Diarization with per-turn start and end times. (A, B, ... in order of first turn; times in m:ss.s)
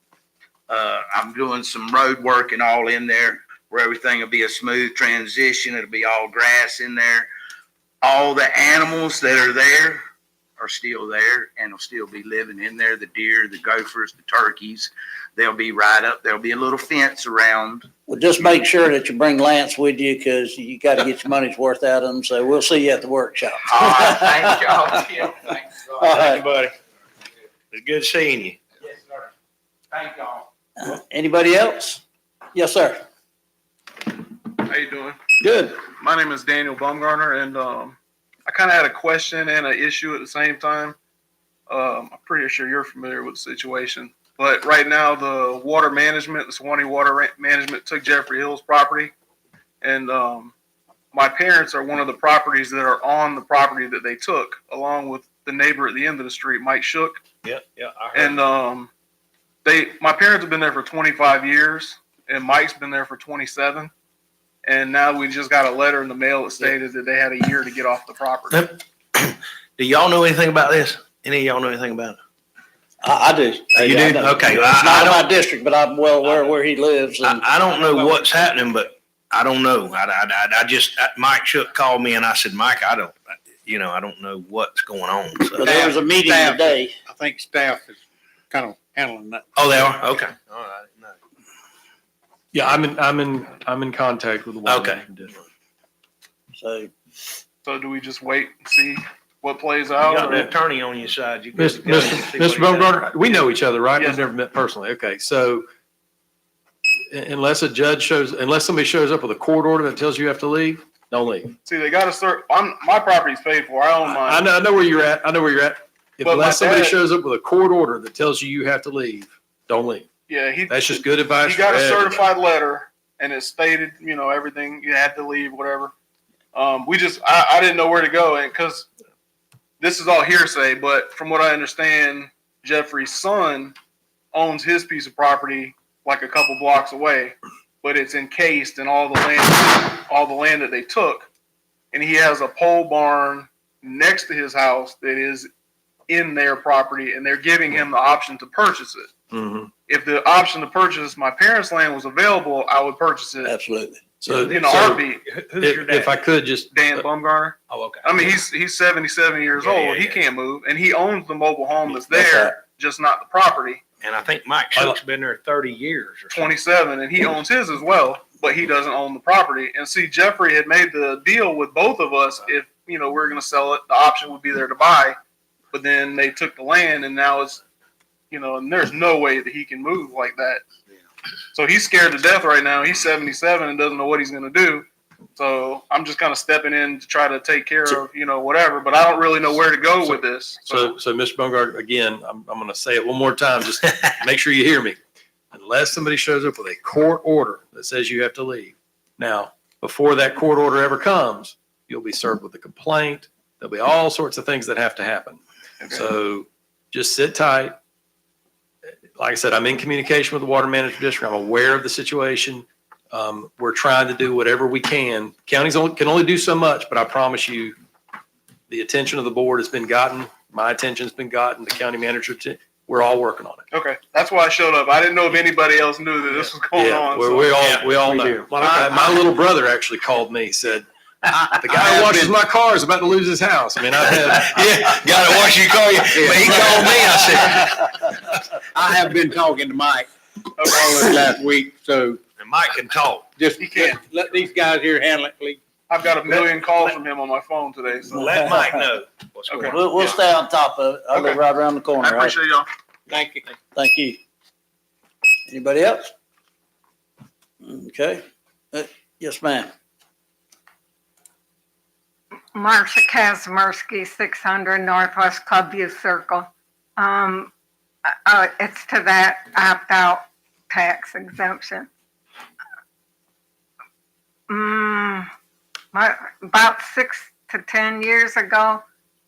0:00.7-0:07.3 A
0:08.0-0:10.0 A
0:10.6-0:17.9 A
0:18.1-0:24.8 B
0:23.7-0:26.2 A
0:26.0-0:26.5 B
0:26.2-0:26.7 C
0:27.7-0:28.6 C
0:30.0-0:30.3 A
0:30.8-0:32.0 B
0:32.5-0:33.0 B
0:34.6-0:35.2 D
0:35.4-0:35.8 B
0:35.9-0:41.0 D
0:41.7-0:49.1 D
0:49.8-0:50.5 D
0:51.1-0:57.2 D
0:57.4-0:58.4 C
0:58.1-0:58.9 D
0:59.6-1:03.9 D
1:04.6-1:08.6 D
1:08.5-1:12.2 C
1:13.0-1:17.4 B
1:13.7-1:15.3 C
1:17.2-1:25.8 C
1:25.5-1:27.0 B
1:25.6-1:29.4 E
1:29.6-1:31.2 C
1:32.5-1:35.3 F
1:34.6-1:35.0 C
1:36.6-1:36.9 B
1:37.6-1:40.5 D
1:40.1-1:43.0 C
1:40.1-1:40.5 F
1:41.5-1:45.6 F
1:43.9-1:44.2 D
1:47.1-1:51.6 F
1:51.6-1:54.4 D
1:54.0-2:00.0 F
1:56.2-1:57.0 D
2:00.3-2:00.9 D
2:00.7-2:02.2 F
2:01.4-2:05.9 D
2:06.5-2:08.9 D
2:09.8-2:13.8 D
2:14.3-2:21.3 D
2:21.9-2:25.5 D
2:26.1-2:29.1 D
2:29.3-2:29.7 F
2:29.9-2:33.5 D
2:33.4-2:34.4 B
2:34.2-2:35.0 F
2:34.4-2:36.2 C
2:34.5-2:35.2 D
2:35.6-2:37.1 F
2:36.7-2:43.8 D
2:37.7-2:38.4 C
2:39.6-2:40.2 C
2:41.9-2:42.6 B
2:44.0-2:46.5 C
2:46.3-2:55.2 D
2:55.7-2:57.6 D
2:58.3-3:00.6 D
3:01.5-3:10.9 D
3:10.0-3:15.0 F
3:15.5-3:27.8 F
3:25.8-3:26.1 D
3:29.2-3:37.8 F
3:38.7-3:43.6 F
3:43.7-3:47.5 D
3:46.4-3:50.8 F
3:47.6-3:49.2 C
3:48.1-3:48.8 E
3:51.5-3:55.0 F
3:51.7-3:52.3 E
3:54.2-3:57.8 C
3:55.8-3:57.6 E
3:58.6-4:02.2 E
4:00.6-4:01.2 D
4:02.4-4:03.3 C
4:03.4-4:05.6 E
4:03.6-4:04.0 D
4:05.9-4:08.4 D
4:08.1-4:10.2 C
4:08.2-4:08.8 B
4:09.5-4:09.8 D
4:09.7-4:12.3 B
4:11.1-4:11.4 D
4:12.0-4:12.7 D
4:13.1-4:13.5 E
4:13.7-4:14.2 B
4:15.5-4:16.1 B
4:17.6-4:19.7 B
4:22.5-4:27.5 G
4:28.2-4:31.9 G
4:34.5-4:35.3 G
4:35.9-4:38.8 G